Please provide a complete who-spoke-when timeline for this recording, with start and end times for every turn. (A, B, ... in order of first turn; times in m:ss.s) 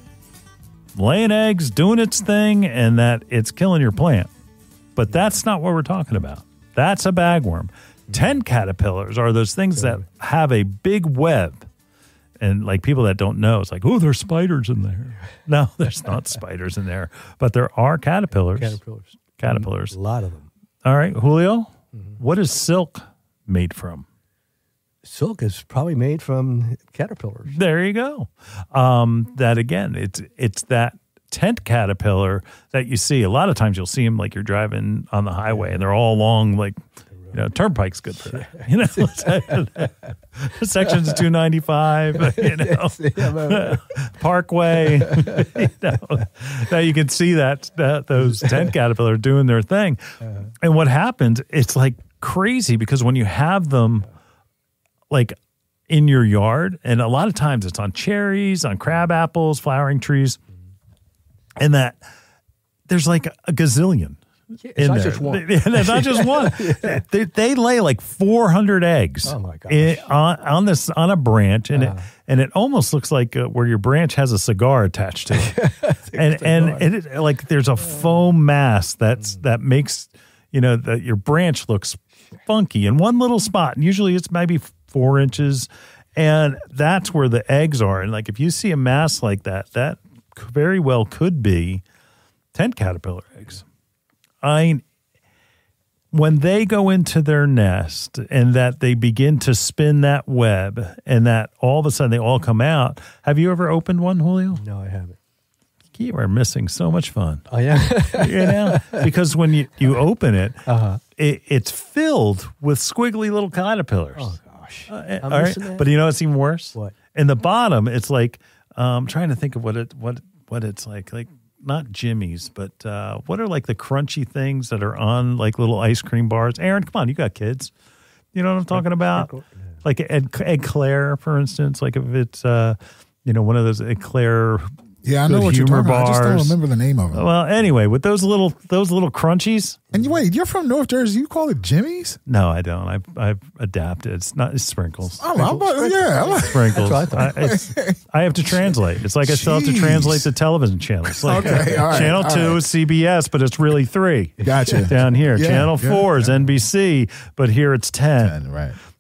0:01.0-0:04.3 A
0:05.0-0:11.6 A
0:09.8-0:10.0 B
0:12.4-0:18.8 A
0:18.5-0:20.5 B
0:19.4-0:20.0 A
0:20.8-0:24.1 A
0:25.0-0:27.6 B
0:27.5-0:36.8 A
0:37.3-0:54.1 A
0:38.3-0:39.7 B
0:42.2-0:43.9 B
0:44.9-0:45.4 B
0:48.4-0:48.7 B
0:55.1-0:55.4 A
0:55.9-1:00.4 A
1:01.6-1:02.0 A
1:02.9-1:04.2 A
1:04.6-1:07.0 B
1:04.8-1:31.8 A
1:09.2-1:10.1 B
1:11.7-1:12.1 B
1:15.3-1:16.8 B
1:32.5-1:33.6 A
1:34.4-1:34.8 A
1:36.1-1:44.6 A
1:44.5-1:45.2 B
1:46.0-1:47.5 A
1:47.5-1:49.1 B
1:48.1-1:50.6 A
1:50.7-1:51.0 B
1:51.2-1:54.3 A
1:54.2-1:55.9 B
1:54.9-2:07.7 A
2:08.4-2:09.3 A
2:08.7-2:09.8 B
2:09.8-2:16.6 A
2:15.0-2:17.3 C
2:17.1-2:19.8 A
2:19.9-2:22.2 C
2:22.3-2:25.3 A
2:25.2-2:28.0 C
2:25.3-2:27.4 B
2:26.4-2:38.4 A
2:29.2-2:30.3 C
2:31.0-2:32.6 C
2:34.4-2:36.3 C
2:34.5-2:34.9 B
2:38.2-2:38.8 C